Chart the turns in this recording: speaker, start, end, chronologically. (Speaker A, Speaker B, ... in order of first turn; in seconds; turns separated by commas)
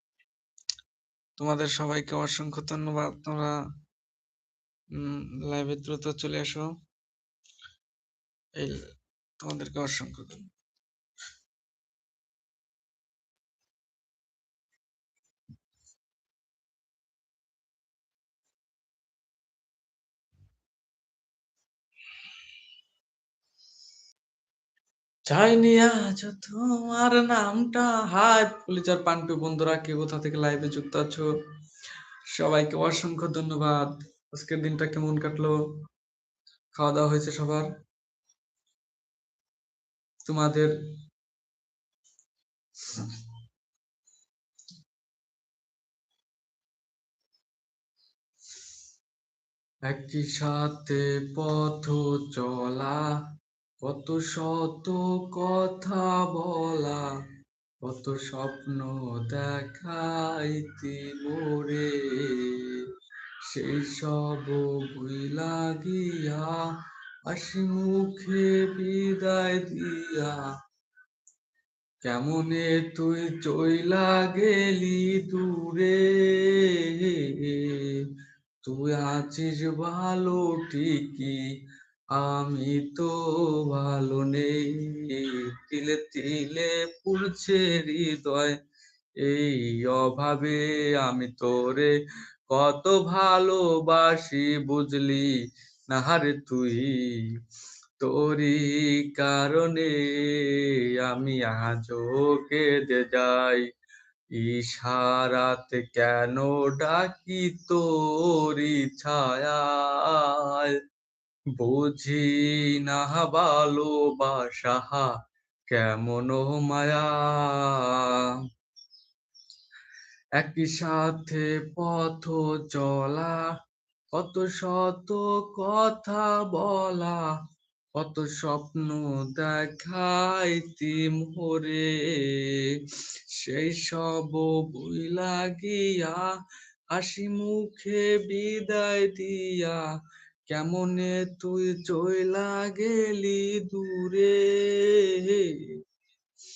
Speaker A: 1.4-3.6, Speaker A: 4.9-6.7, Speaker A: 8.6-10.5, Speaker A: 25.3-31.3, Speaker A: 32.3-35.5, Speaker A: 36.7-37.7, Speaker A: 40.2-40.7, Speaker A: 49.9-53.1, Speaker A: 53.8-57.1, Speaker A: 57.8-62.8, Speaker A: 63.5-66.6, Speaker A: 67.3-70.4, Speaker A: 72.0-78.0, Speaker A: 78.6-81.4, Speaker A: 82.1-88.5, Speaker A: 89.2-91.9, Speaker A: 92.5-95.3, Speaker A: 95.9-97.3, Speaker A: 98.0-103.6, Speaker A: 104.3-110.7, Speaker A: 111.6-115.1, Speaker A: 115.7-118.4, Speaker A: 120.4-123.5, Speaker A: 124.1-127.3, Speaker A: 128.0-132.8, Speaker A: 133.3-136.3, Speaker A: 136.9-139.8, Speaker A: 140.5-145.7